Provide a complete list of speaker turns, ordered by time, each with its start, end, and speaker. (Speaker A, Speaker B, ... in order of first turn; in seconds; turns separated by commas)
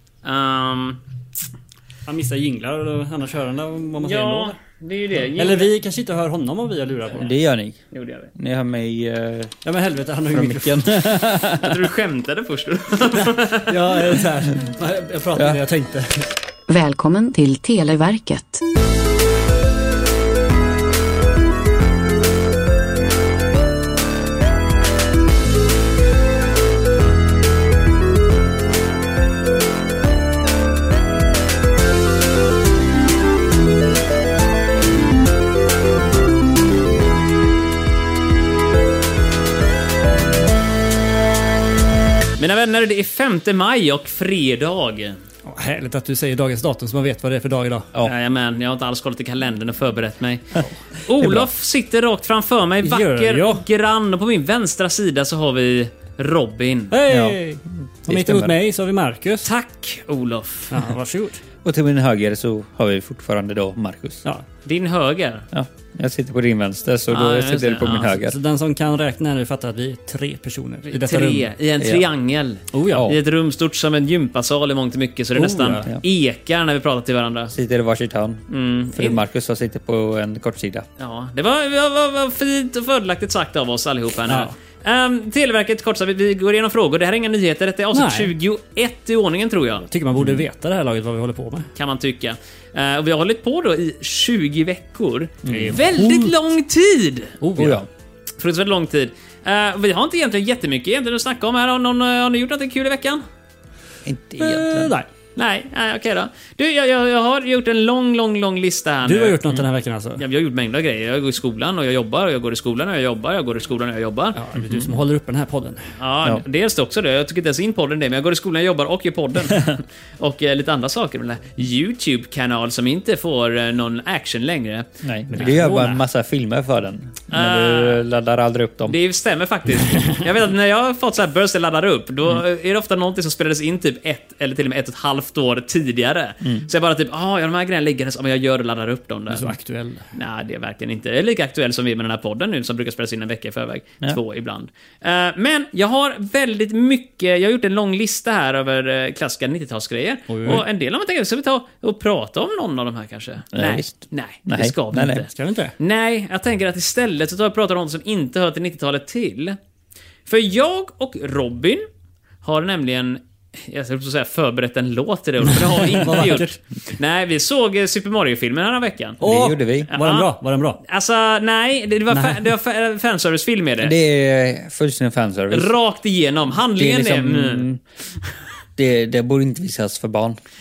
Speaker A: 0.2-1.0, Speaker B: 2.1-4.6, Speaker A: 4.0-5.7, Speaker B: 5.3-7.3, Speaker C: 7.1-7.8, Speaker A: 7.9-8.3, Speaker C: 8.3-9.6, Speaker B: 9.7-11.2, Speaker C: 10.3-11.8, Speaker A: 11.6-13.8, Speaker B: 13.7-16.3, Speaker C: 15.3-15.6, Speaker D: 16.7-18.6, Speaker A: 42.4-45.2, Speaker B: 45.5-47.9, Speaker A: 48.0-57.0, Speaker C: 51.2-51.5, Speaker B: 52.8-53.6, Speaker B: 56.9-59.5, Speaker C: 57.1-57.4, Speaker C: 58.1-58.5, Speaker A: 59.4-60.8, Speaker B: 60.7-61.4, Speaker C: 61.6-64.2, Speaker A: 64.7-65.5, Speaker C: 65.5-68.4, Speaker A: 67.1-68.2, Speaker B: 68.2-71.5, Speaker A: 70.9-77.5, Speaker C: 71.8-72.0, Speaker B: 72.7-73.1, Speaker C: 72.9-73.2, Speaker B: 75.4-75.9, Speaker C: 77.5-80.9, Speaker A: 78.5-79.2, Speaker A: 81.0-89.9, Speaker B: 84.3-84.5, Speaker B: 87.9-88.3, Speaker B: 89.9-91.7, Speaker A: 91.8-97.4, Speaker C: 95.5-95.8, Speaker B: 95.5-96.3, Speaker B: 97.4-97.8, Speaker C: 97.6-97.9, Speaker A: 98.4-103.2, Speaker C: 104.0-104.9, Speaker B: 104.4-105.1, Speaker A: 105.4-109.4, Speaker B: 109.0-110.2, Speaker A: 110.2-114.4, Speaker B: 114.4-115.9, Speaker C: 114.6-115.0, Speaker A: 116.0-125.9, Speaker C: 125.0-129.0, Speaker B: 125.3-126.0, Speaker A: 127.3-128.0, Speaker A: 128.9-139.5, Speaker B: 129.8-130.2, Speaker B: 139.3-140.1, Speaker A: 140.1-159.6, Speaker B: 150.3-150.7, Speaker C: 153.5-155.3, Speaker B: 155.3-155.7, Speaker A: 160.3-161.9, Speaker A: 162.4-169.2, Speaker B: 165.5-166.5, Speaker C: 169.2-169.9, Speaker B: 169.2-170.8, Speaker A: 169.9-170.3, Speaker A: 170.8-173.9, Speaker B: 172.1-172.5, Speaker C: 173.8-175.7, Speaker A: 175.5-177.7, Speaker C: 176.8-177.8, Speaker C: 178.8-180.4